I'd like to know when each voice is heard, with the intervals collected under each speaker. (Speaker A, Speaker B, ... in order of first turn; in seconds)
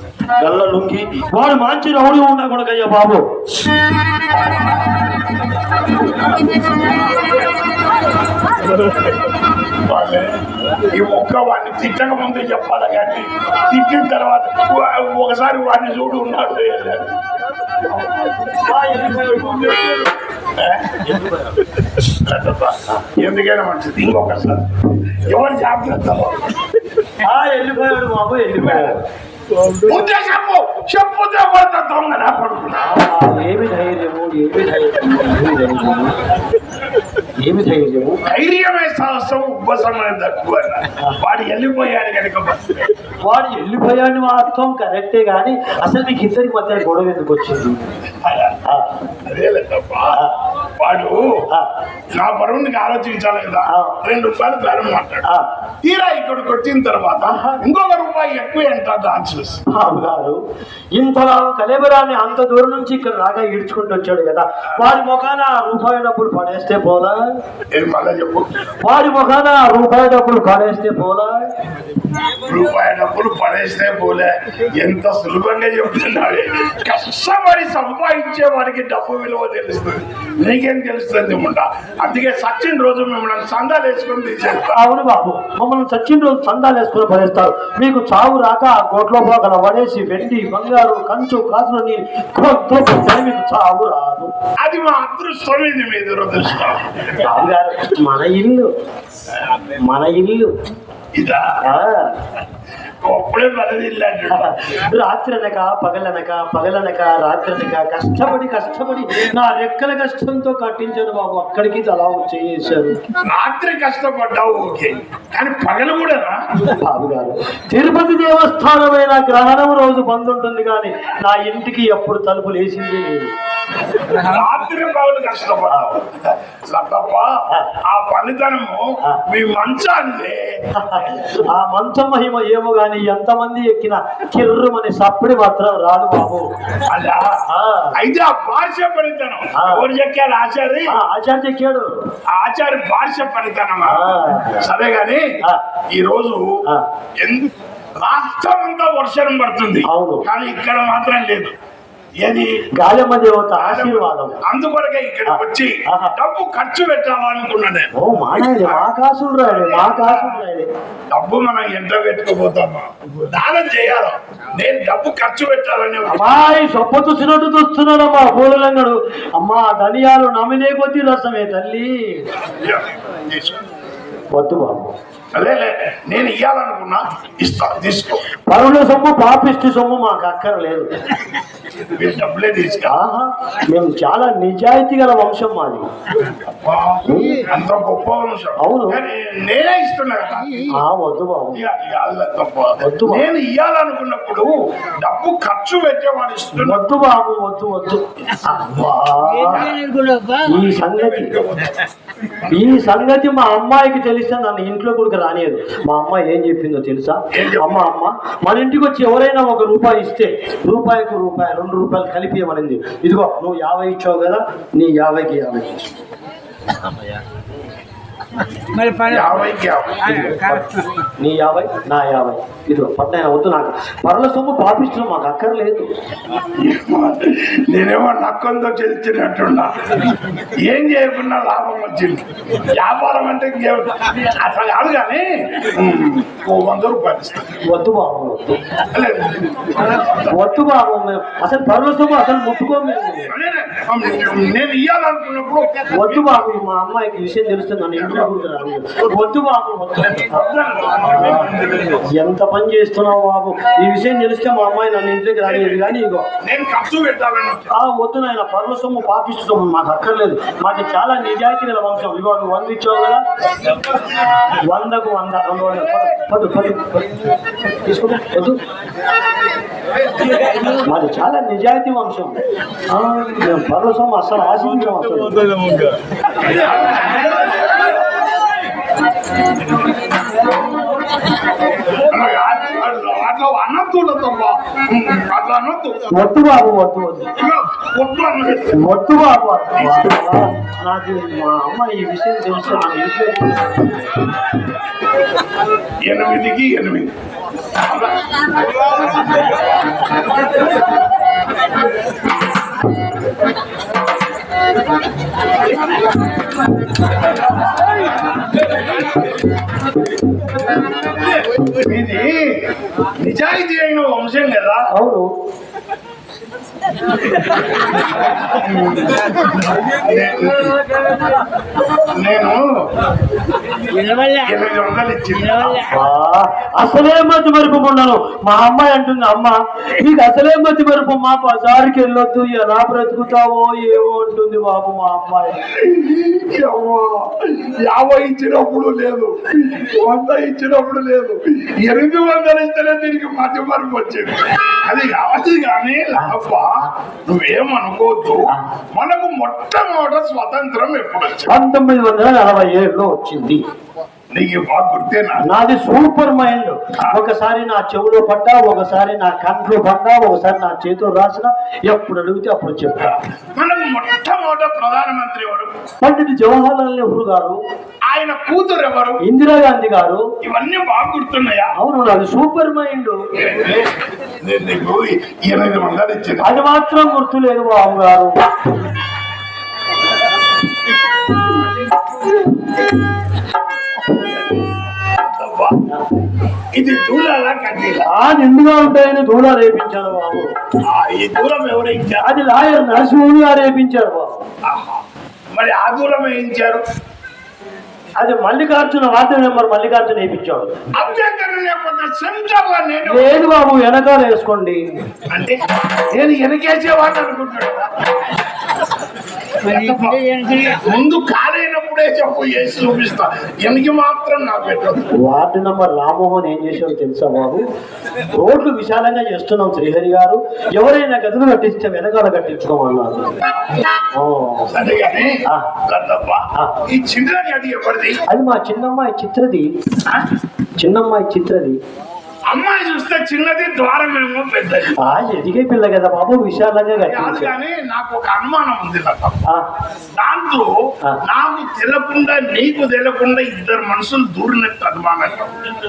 Speaker A: 0.4-3.2, 18.3-20.1, 27.2-29.0, 32.8-36.1, 37.4-38.2, 43.3-47.9, 48.6-49.0, 53.7-54.0, 57.2-57.6, 59.7-60.4, 61.0-67.2, 68.8-71.4, 84.8-94.3, 97.1-98.7, 99.8-100.5, 101.6-102.1, 104.3-113.0, 116.8-123.3, 130.8-136.5, 137.5-138.0, 139.6-139.9, 140.9-141.9, 143.9-144.6, 149.9-150.3, 152.8-154.4, 155.3-156.1, 158.0-160.7, 166.1-172.3, 174.3-174.9, 178.5-180.9, 182.9-185.8, 187.1-187.5, 188.6-189.0, 190.7-191.6, 192.8-193.3, 196.6-199.8, 200.4-201.4, 202.5-215.9, 221.2-225.9, 237.7-238.6, 240.3-243.3, 245.9-250.4, 251.0-251.5, 252.2-256.3, 257.7-263.2, 264.6-267.2, 267.8-268.6, 270.7-275.5, 286.1-287.3, 288.7-294.0, 314.9-315.3, 325.9-335.6, 351.5-353.6, 355.4-363.2, 366.0-367.6, 369.2-370.3, 371.8-373.2, 376.4-378.4, 388.1-390.5, 392.2-394.5, 398.2-400.8, 403.1-404.8, 415.2-417.6, 418.4-423.3, 424.2-424.7, 428.3-429.7, 430.8-431.8, 435.0-437.6
Speaker B: 9.8-10.4, 10.9-17.1, 20.6-21.2, 22.0-26.5, 28.6-28.9, 29.8-32.8, 38.3-42.8, 48.2-48.5, 49.3-50.2, 50.8-51.3, 52.1-55.2, 55.8-59.6, 67.7-68.5, 72.5-84.8, 94.6-97.1, 101.2-101.4, 103.0-104.5, 113.2-116.5, 124.2-127.3, 127.9-131.3, 136.9-137.4, 138.0-140.9, 142.3-145.2, 145.9-146.5, 147.2-151.5, 152.2-152.6, 153.6-158.9, 159.5-160.4, 161.1-166.4, 172.6-173.6, 175.3-178.2, 181.9-182.9, 186.3-190.8, 191.5-196.8, 199.5-199.8, 200.5-201.9, 202.4-202.9, 207.3-207.8, 219.1-220.4, 226.6-229.8, 230.6-232.3, 232.8-237.6, 238.9-240.3, 243.3-246.3, 248.0-249.1, 250.2-252.0, 255.5-255.9, 256.4-257.7, 276.4-277.9, 282.0-286.1, 287.4-288.8, 289.8-290.1, 296.1-297.1, 297.8-298.3, 311.6-312.6, 313.2-314.9, 318.4-319.2, 319.9-320.8, 322.1-322.9, 324.4-325.9, 335.7-346.7, 347.3-348.4, 348.9-351.5, 354.3-355.4, 363.6-365.8, 368.1-369.2, 370.4-371.7, 373.4-373.9, 374.4-376.4, 384.1-385.8, 386.8-388.1, 390.9-392.2, 394.6-395.0, 395.5-396.8, 401.0-403.3, 405.3-405.6, 406.1-407.9, 409.6-415.1, 424.7-428.2, 432.5-435.0, 437.1-439.5, 440.2-445.5
Speaker C: 199.3-200.5, 218.8-219.2, 220.2-220.8, 323.9-324.4, 409.7-410.7